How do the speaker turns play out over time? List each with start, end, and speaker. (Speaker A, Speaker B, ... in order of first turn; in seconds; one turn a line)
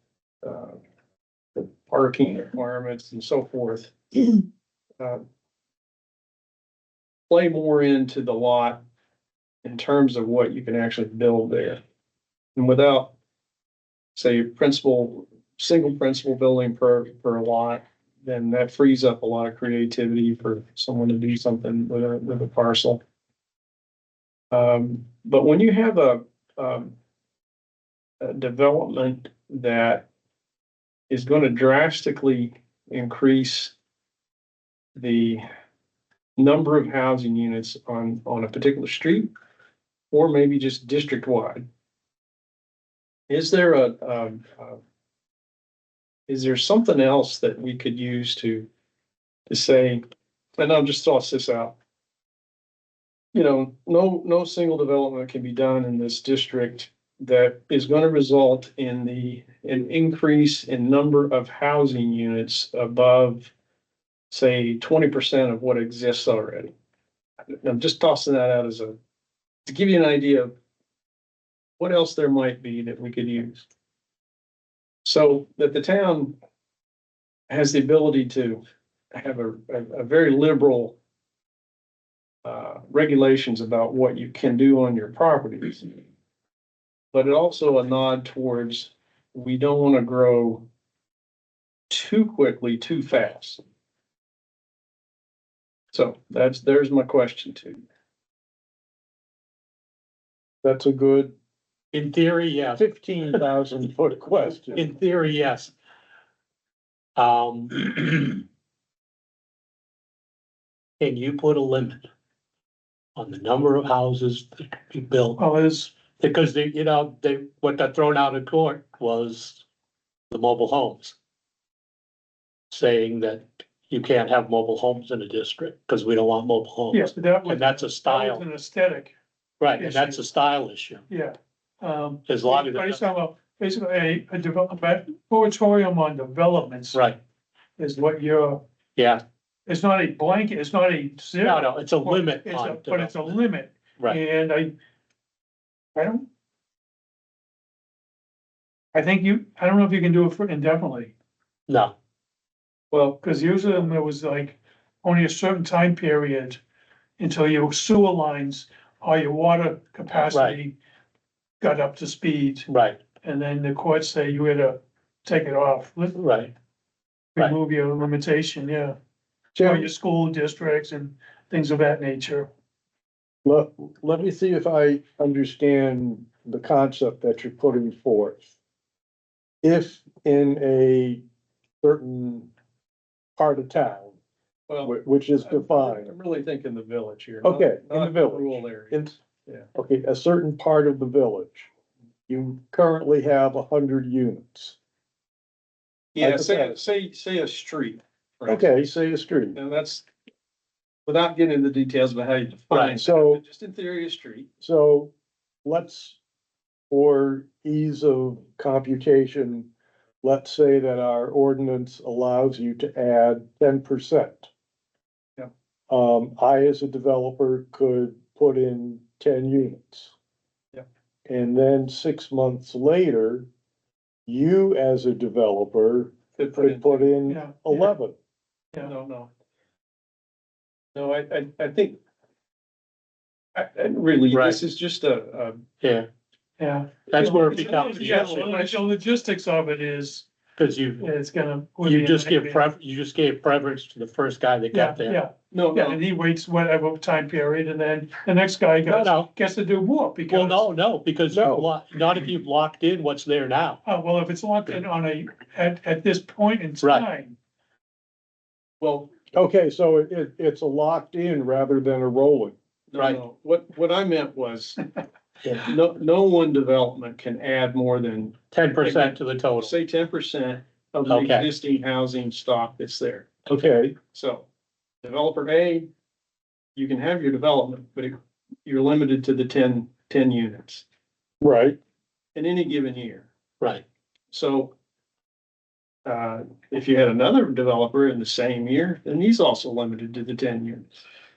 Speaker A: 0.4-0.8
Speaker A: 1.6-4.0
Speaker A: 7.3-8.8
Speaker A: 9.6-11.8
Speaker A: 12.6-13.1
Speaker A: 14.2-23.0
Speaker A: 24.5-26.9
Speaker A: 28.2-30.1
Speaker A: 31.1-33.8
Speaker A: 35.0-35.4
Speaker A: 36.4-39.3
Speaker A: 40.1-41.7
Speaker A: 43.3-44.8
Speaker A: 46.3-48.7
Speaker A: 49.5-50.0
Speaker A: 50.6-51.8
Speaker A: 53.3-63.5
Speaker A: 64.3-66.7
Speaker A: 67.6-69.0
Speaker A: 69.7-70.5
Speaker A: 71.8-73.7
Speaker A: 75.0-76.4
Speaker A: 77.5-78.6
Speaker A: 79.1-81.0
Speaker A: 82.4-86.0
Speaker A: 87.1-90.7
Speaker A: 91.9-93.6
Speaker A: 95.9-97.8
Speaker B: 100.6-101.3
Speaker C: 101.9-103.4
Speaker B: 102.8-104.9
Speaker C: 104.8-105.7
Speaker C: 107.2-108.4
Speaker C: 111.0-112.0
Speaker C: 113.2-115.4
Speaker D: 115.4-115.9
Speaker C: 115.9-119.6
Speaker C: 120.3-121.2
Speaker C: 122.7-128.4
Speaker D: 126.9-129.2
Speaker C: 129.6-131.0
Speaker D: 129.8-130.2
Speaker D: 131.1-137.1
Speaker C: 132.3-133.0
Speaker C: 136.9-137.2
Speaker D: 137.8-138.6
Speaker C: 139.0-139.2
Speaker D: 139.7-144.7
Speaker C: 141.4-143.4
Speaker D: 146.0-146.3
Speaker D: 148.9-151.1
Speaker C: 151.7-151.9
Speaker A: 152.9-153.2
Speaker D: 153.2-156.6
Speaker D: 157.2-160.8
Speaker C: 160.3-160.6
Speaker D: 161.6-162.7
Speaker C: 162.7-163.0
Speaker D: 163.2-166.2
Speaker C: 166.2-166.5
Speaker D: 167.3-169.0
Speaker B: 169.6-169.9
Speaker D: 169.6-172.5
Speaker B: 173.4-178.5
Speaker B: 179.6-181.2
Speaker B: 181.8-182.5
Speaker B: 183.4-184.2
Speaker A: 184.7-189.7
Speaker B: 184.8-186.1
Speaker B: 187.4-189.2
Speaker B: 189.8-191.7
Speaker B: 192.3-194.8
Speaker A: 196.2-198.7
Speaker B: 196.2-196.8
Speaker B: 198.5-199.6
Speaker A: 199.6-200.1
Speaker A: 201.1-204.5
Speaker C: 202.7-203.0
Speaker B: 203.0-203.4
Speaker B: 204.6-205.1
Speaker B: 205.6-206.2
Speaker B: 206.9-209.7
Speaker B: 210.2-214.5
Speaker B: 215.9-220.1
Speaker B: 221.3-223.5
Speaker B: 224.3-228.2
Speaker A: 226.4-227.1
Speaker D: 227.3-227.9
Speaker A: 228.8-229.3
Speaker A: 230.9-232.0
Speaker A: 233.6-235.6
Speaker C: 234.3-234.6
Speaker C: 235.8-236.1
Speaker D: 236.6-240.3
Speaker C: 237.1-238.5
Speaker A: 237.2-238.8
Speaker C: 240.6-241.1
Speaker D: 241.0-242.7
Speaker C: 241.8-245.2
Speaker D: 244.7-250.7
Speaker A: 245.5-246.0
Speaker C: 248.8-249.3
Speaker C: 250.3-253.8
Speaker B: 251.3-251.7
Speaker D: 253.9-257.4
Speaker C: 256.8-257.1
Speaker A: 258.8-259.1
Speaker B: 259.3-262.6
Speaker A: 262.9-264.8
Speaker C: 265.4-265.7
Speaker A: 265.6-273.3
Speaker C: 268.5-269.7
Speaker C: 271.1-271.5
Speaker B: 273.5-274.0
Speaker A: 274.1-274.5
Speaker A: 275.0-275.9
Speaker A: 276.8-280.9
Speaker B: 281.4-281.8
Speaker A: 282.4-283.3
Speaker A: 284.3-284.7
Speaker A: 286.1-290.9